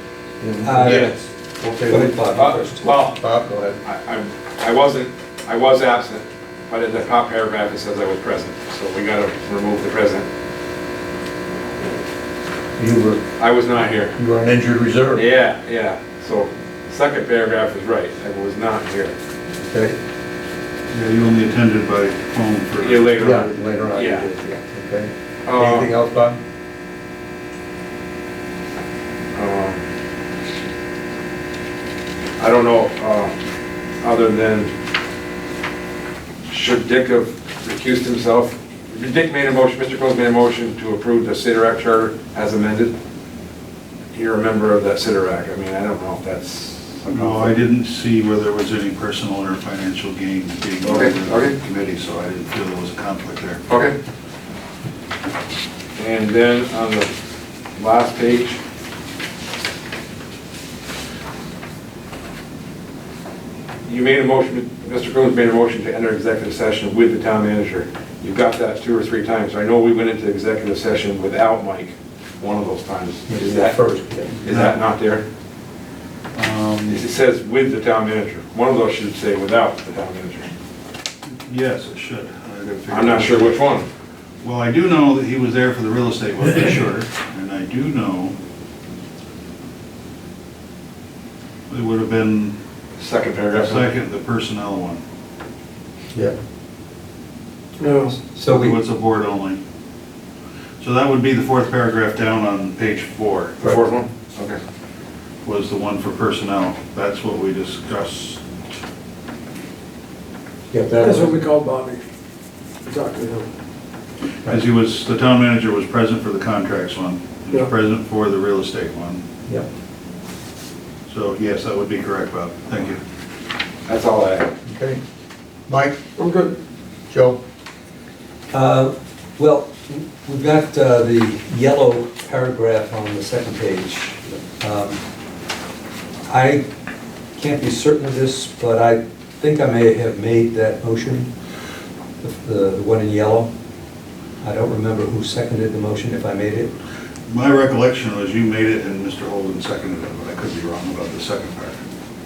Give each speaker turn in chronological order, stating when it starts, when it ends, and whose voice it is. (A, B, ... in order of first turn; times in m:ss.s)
0:00.4-0:02.2 A
0:00.6-0:01.0 B
0:00.8-0:01.1 C
0:01.9-0:02.8 B
0:02.3-0:03.2 C
0:03.2-0:03.8 A
0:03.8-0:10.2 C
0:12.8-0:13.2 A
0:13.4-0:14.2 C
0:14.2-0:15.2 A
0:15.1-0:19.1 C
0:19.6-0:20.0 A
0:20.9-0:23.4 D
0:22.8-0:24.3 C
0:23.2-0:26.4 A
0:25.4-0:25.9 C
0:29.3-0:29.8 C
0:32.4-0:33.3 C
0:34.0-0:34.7 C
0:36.5-0:42.9 C
0:44.1-0:47.5 C
0:47.1-0:53.6 D
0:50.8-0:51.6 C
0:53.7-0:53.9 C
0:56.0-0:57.1 C
0:57.8-0:58.6 C
1:03.8-1:13.8 C
1:13.3-1:14.5 A
1:14.4-1:15.2 C
1:14.5-1:14.8 D
1:16.3-1:17.0 D
1:16.9-1:20.5 C
1:21.2-1:23.6 D
1:22.9-1:23.8 C
1:24.4-1:28.4 D
1:31.7-1:32.6 D
1:33.0-1:33.9 C
1:33.5-1:35.0 D
1:37.8-1:38.1 E
1:38.3-1:38.8 B
1:38.4-1:39.6 D
1:40.8-1:43.6 D
1:43.6-1:44.6 C
1:45.4-1:48.4 D
1:50.7-1:51.4 A
1:51.0-1:52.0 E
1:52.8-1:53.5 E
1:54.5-1:59.2 D
2:01.1-2:03.0 D
2:03.9-2:04.5 C
2:04.6-2:05.0 A
2:05.7-2:06.0 A
2:06.2-2:06.6 E
2:07.1-2:07.4 A
2:08.5-2:15.0 B
2:16.2-2:16.6 B
2:17.4-2:21.3 B
2:22.2-2:23.5 B
2:24.4-2:26.7 B
2:27.3-2:31.8 D